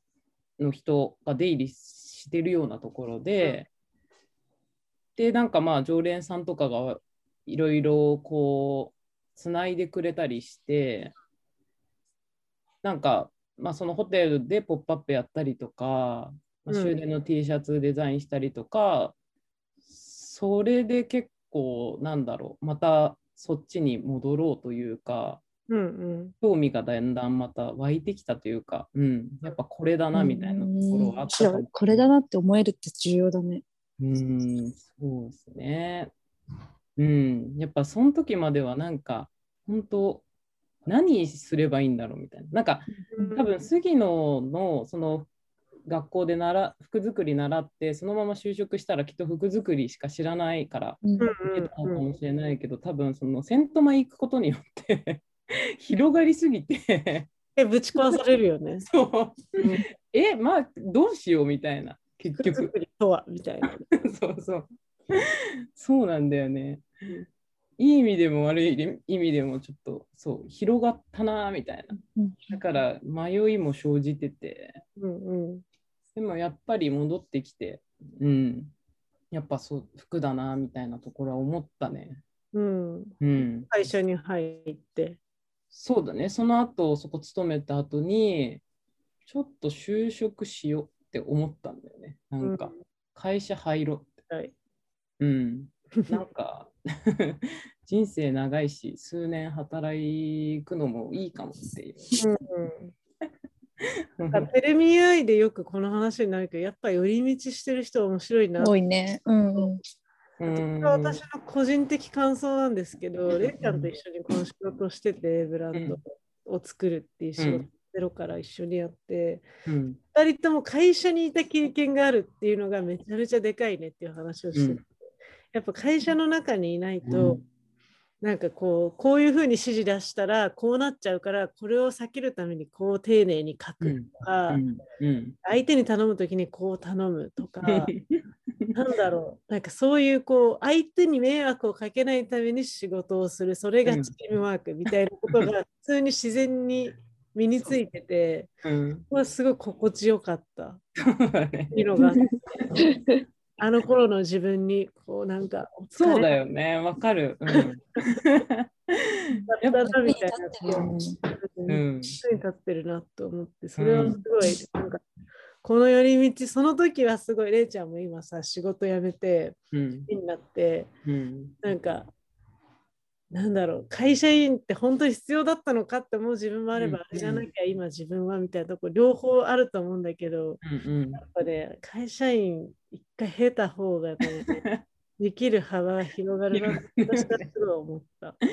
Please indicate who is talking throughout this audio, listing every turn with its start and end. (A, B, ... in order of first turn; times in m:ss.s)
0:00.6-0:03.7 A
0:05.2-0:11.1 A
0:12.8-0:19.1 A
0:16.7-0:17.0 B
0:19.9-0:25.4 A
0:25.7-0:26.4 B
0:26.4-0:32.1 A
0:30.1-0:33.6 C
0:34.0-0:36.1 A
0:37.0-0:40.2 A
0:40.8-0:45.3 A
0:43.1-0:43.5 B
0:45.9-0:57.3 A
0:51.0-0:51.3 C
0:51.2-0:52.0 B
0:57.6-0:58.9 B
0:58.8-1:02.7 A
1:02.4-1:03.9 B
1:03.9-1:06.9 A
1:07.8-1:14.8 A
1:15.0-1:15.6 B
1:16.1-1:18.7 A
1:19.3-1:22.2 A
1:22.5-1:25.2 B
1:23.2-1:23.7 A
1:25.7-1:28.6 A
1:29.3-1:34.2 A
1:32.4-1:32.8 B
1:34.3-1:34.5 B
1:35.2-1:42.1 A
1:42.2-1:42.9 B
1:43.8-1:44.5 A
1:44.3-1:48.7 B
1:48.6-1:49.8 C
1:50.4-1:51.2 A
1:50.5-1:59.5 B
1:53.6-1:53.9 A
1:55.7-1:56.0 A
1:57.4-1:57.6 A
1:59.6-2:00.0 A
2:00.1-2:04.9 B
2:04.5-2:04.8 A
2:05.5-2:07.4 B
2:07.1-2:07.4 A
2:08.2-2:14.6 B
2:13.8-2:15.4 A
2:15.4-2:17.9 B
2:17.6-2:18.8 A
2:18.7-2:28.5 B
2:23.9-2:24.1 A
2:28.6-2:29.0 A
2:29.1-2:30.8 B
2:31.0-2:32.6 A
2:31.7-2:32.8 B
2:33.6-2:36.3 B
2:36.0-2:39.9 A
2:37.5-2:38.2 B
2:39.5-2:45.0 B
2:39.9-2:41.1 C
2:41.7-2:42.2 A
2:43.8-2:44.2 A
2:45.6-2:49.6 B
2:49.7-2:50.1 A
2:50.1-2:50.9 B
2:51.0-2:51.6 A
2:51.6-2:52.1 B
2:53.3-3:00.6 B
2:56.8-2:57.5 A
3:00.6-3:01.2 A
3:01.1-3:04.6 B
3:04.5-3:04.8 A
3:05.2-3:08.4 B
3:06.5-3:07.5 A